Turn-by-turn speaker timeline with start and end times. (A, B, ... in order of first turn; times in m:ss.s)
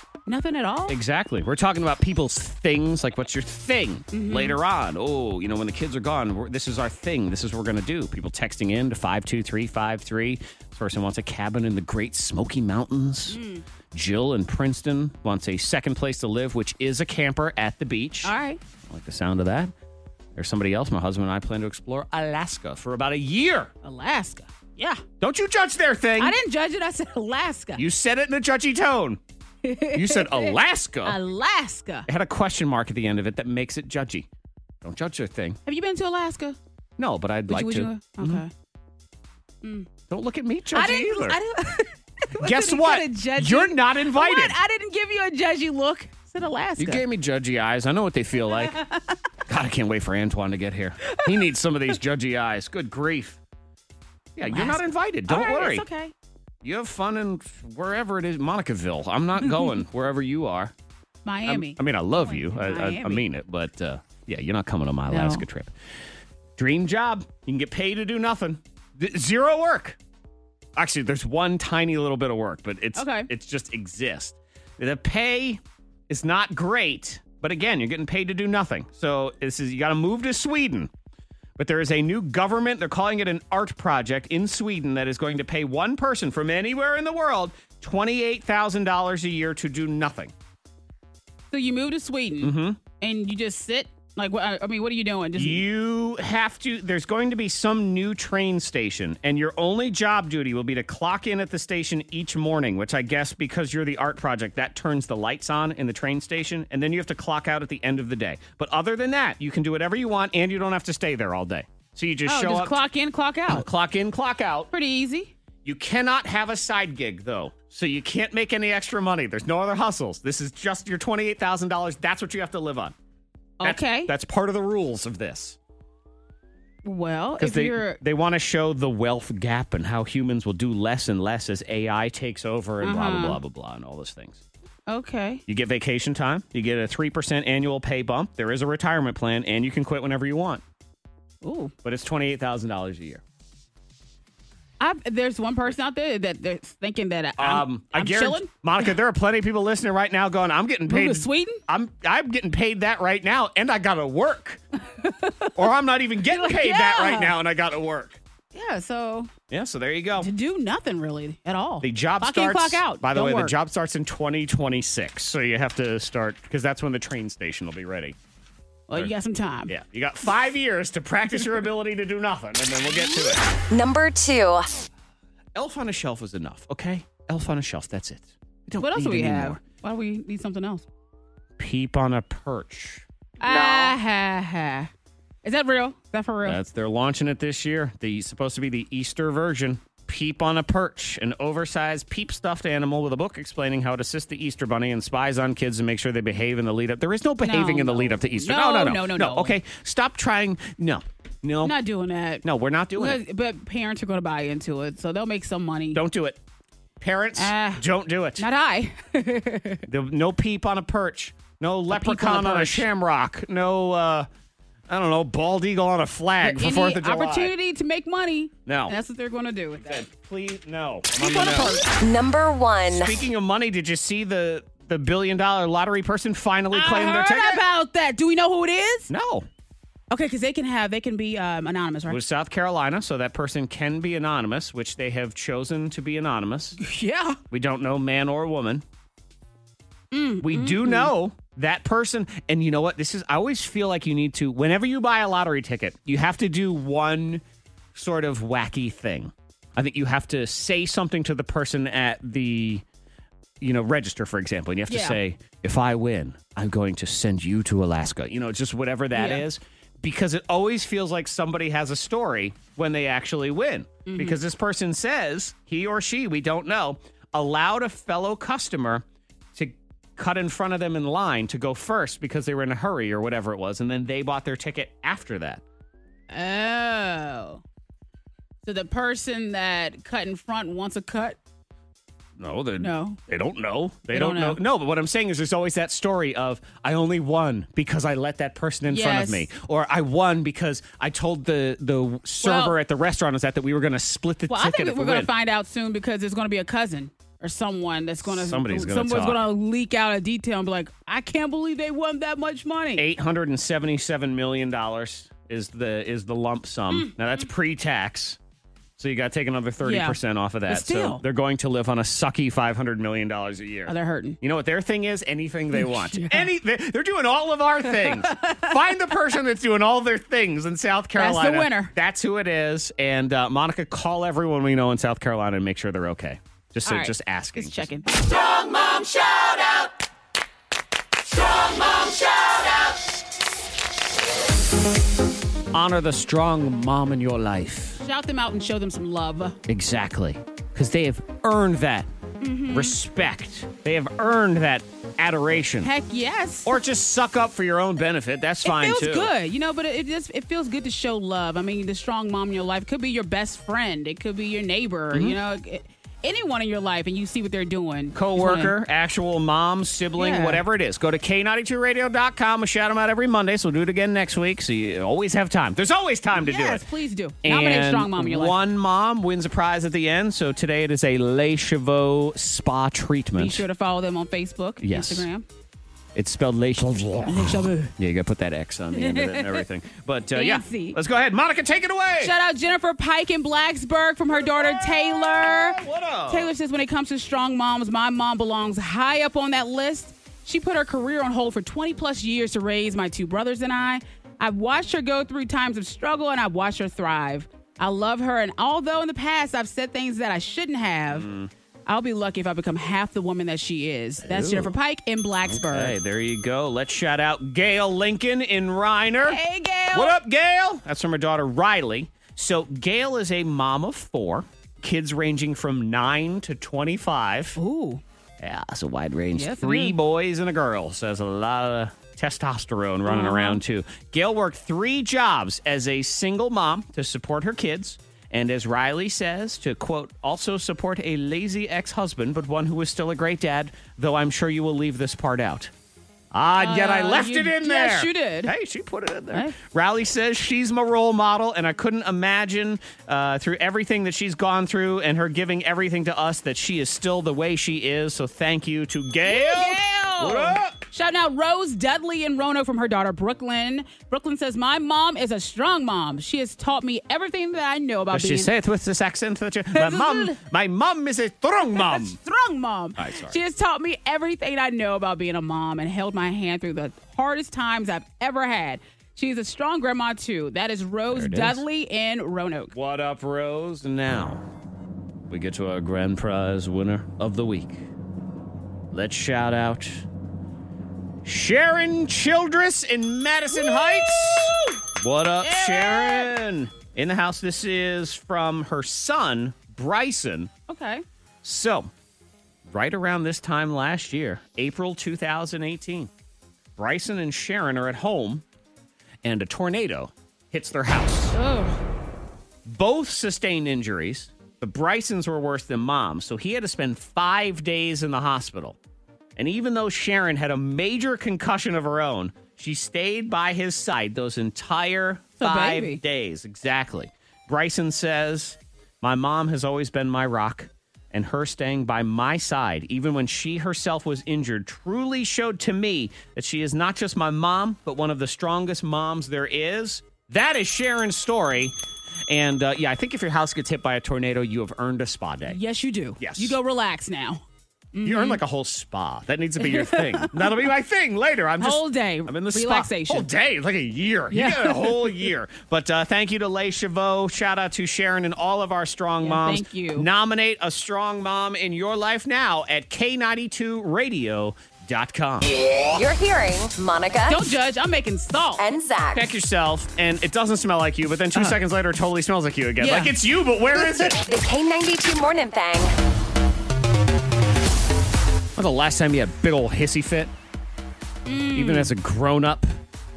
0:00.3-0:01.0 A
0:00.9-0:13.4 B
0:04.1-0:04.6 A
0:13.3-0:13.6 A
0:13.9-0:18.4 B
0:18.2-0:18.6 A
0:18.9-0:19.7 B
0:20.4-0:23.7 B
0:23.8-0:25.0 A
0:25.2-0:26.4 B
0:26.2-0:27.8 A
0:27.8-0:29.2 B
0:29.6-0:32.1 A
0:29.9-0:31.2 B
0:32.1-0:34.3 B
0:34.8-0:35.6 B
0:35.6-0:36.6 A
0:37.0-0:38.4 B
0:37.5-0:38.5 A
0:39.6-0:39.9 A
0:40.1-0:41.4 B
0:40.7-0:47.0 A
0:42.4-0:44.6 B
0:46.8-0:48.8 B
0:48.5-0:49.2 A
0:49.5-0:53.4 B
0:54.4-0:55.9 B
0:54.5-0:56.1 A
0:56.6-1:00.7 B
1:01.2-1:03.2 A
1:01.4-1:05.7 B
1:05.1-1:05.4 A
1:06.6-1:10.0 B
1:10.8-1:20.9 B
1:13.0-1:13.3 A
1:21.6-1:30.3 B
1:31.5-1:35.6 A
1:32.4-1:32.8 B
1:35.4-1:52.8 B
1:52.3-1:53.6 A
1:53.5-1:54.7 B
1:54.7-1:55.3 A
1:55.6-2:03.0 B
2:03.6-2:04.1 A
2:03.6-2:05.6 B
2:06.8-2:08.0 A
2:07.4-2:14.4 B
2:12.8-2:13.4 A
2:14.9-2:15.4 A
2:15.5-2:20.6 B
2:21.4-2:21.7 A
2:21.8-2:23.2 B
2:24.8-2:28.5 A
2:27.4-2:34.6 B
2:30.9-2:31.6 A
2:35.0-2:35.6 A
2:35.6-2:38.2 B
2:36.3-2:37.4 A
2:38.5-2:39.3 A
2:39.5-2:40.3 B
2:40.2-2:43.6 A
2:41.8-2:48.2 B
2:48.9-2:49.7 A
2:49.7-2:53.5 B
2:53.7-2:54.7 C
2:55.6-2:59.6 B
2:58.8-3:00.8 A
3:01.6-3:03.9 B
3:03.4-3:04.9 A
3:05.4-3:06.6 A
3:06.4-3:21.8 B
3:17.4-3:19.6 A
3:21.6-3:26.0 A
3:22.4-3:23.2 B
3:25.9-3:26.4 B
3:27.0-3:28.4 B
3:27.4-3:27.8 A
3:28.4-3:29.8 A
3:29.9-3:34.3 B
3:31.9-3:32.9 A
3:34.9-3:37.5 B
3:36.4-3:40.1 A
3:38.6-3:39.0 B
3:39.8-3:41.8 B
3:41.2-3:41.9 A
3:42.0-3:43.2 C
3:42.9-3:47.6 B
3:46.7-3:49.1 A
3:49.1-3:49.5 B
3:50.1-3:52.2 A
3:52.1-3:56.8 B
3:56.8-3:57.4 A
3:57.5-3:58.8 B
4:00.1-4:01.1 A
4:00.4-4:07.4 B
4:07.9-4:12.8 B
4:13.6-4:35.6 B
4:14.9-4:15.2 A
4:19.1-4:19.4 A
4:24.0-4:24.4 A
4:36.3-4:37.6 A
4:38.6-4:41.4 A
4:42.4-4:55.3 B
4:42.8-4:43.2 A
4:44.1-4:44.6 A
4:48.9-4:49.5 A
4:52.4-4:52.8 A
4:54.5-5:03.1 A
4:58.2-4:59.4 B
5:03.0-5:08.4 B
5:06.9-5:07.4 A
5:09.0-5:27.9 B
5:09.8-5:11.2 A
5:13.9-5:14.4 A
5:15.7-5:16.5 A
5:17.9-5:18.7 A
5:21.2-5:21.9 A
5:26.9-5:28.2 A
5:28.4-5:29.4 B
5:31.9-5:32.4 B
5:35.7-5:38.0 B
5:38.0-5:39.6 A
5:39.7-5:42.1 B
5:42.4-5:43.0 A
5:42.7-5:45.9 B
5:45.8-5:46.8 A
5:46.6-5:49.3 B
5:48.6-5:58.7 A
5:55.1-5:55.4 B
5:58.1-6:06.8 B
6:00.2-6:00.6 A
6:06.4-6:08.6 A
6:07.4-6:13.6 B
6:13.4-6:15.5 A
6:14.8-6:15.3 B
6:16.2-6:22.3 B
6:17.2-6:17.9 A
6:18.9-6:19.6 A
6:20.4-6:21.0 A
6:22.2-6:41.2 A
6:24.4-6:26.5 B
6:41.1-6:41.5 B
6:41.9-6:46.0 A
6:44.2-6:44.7 B
6:45.4-6:49.4 B
6:49.2-6:50.2 A
6:49.9-6:57.6 B
6:57.6-6:58.0 A
6:58.4-7:15.7 B
6:59.4-7:00.0 A
7:03.1-7:03.6 A
7:16.3-7:30.8 B
7:16.6-7:18.5 A
7:29.2-7:38.5 A
7:38.1-7:42.2 B
7:39.7-7:40.4 A
7:41.8-7:52.7 A
7:43.0-7:43.4 B
7:51.1-7:51.6 B
7:52.7-7:54.4 B
7:55.3-7:57.9 B
7:58.9-8:00.0 B
8:01.2-8:10.5 B
8:03.5-8:04.8 A
8:05.4-8:06.3 A
8:10.7-8:11.0 A
8:11.4-8:11.9 B
8:12.7-8:16.1 B
8:16.8-8:18.4 B
8:19.2-8:21.4 B
8:21.3-8:21.8 A
8:22.6-8:28.8 B
8:29.4-8:51.8 B
8:35.4-8:36.0 A
8:52.3-8:55.6 B
8:55.5-8:57.4 A
8:56.2-8:56.6 B
8:57.9-8:58.4 A
8:58.0-9:15.5 B
8:59.6-9:00.6 A
9:01.6-9:03.3 A
9:04.3-9:05.3 A
9:09.2-9:10.1 A
9:15.8-9:17.5 C
9:17.3-9:18.6 A
9:18.6-9:19.3 C
9:19.1-9:24.2 B
9:22.8-9:23.1 A
9:23.9-9:25.9 C
9:28.6-9:30.3 B
9:31.2-9:31.9 A
9:31.5-9:32.7 B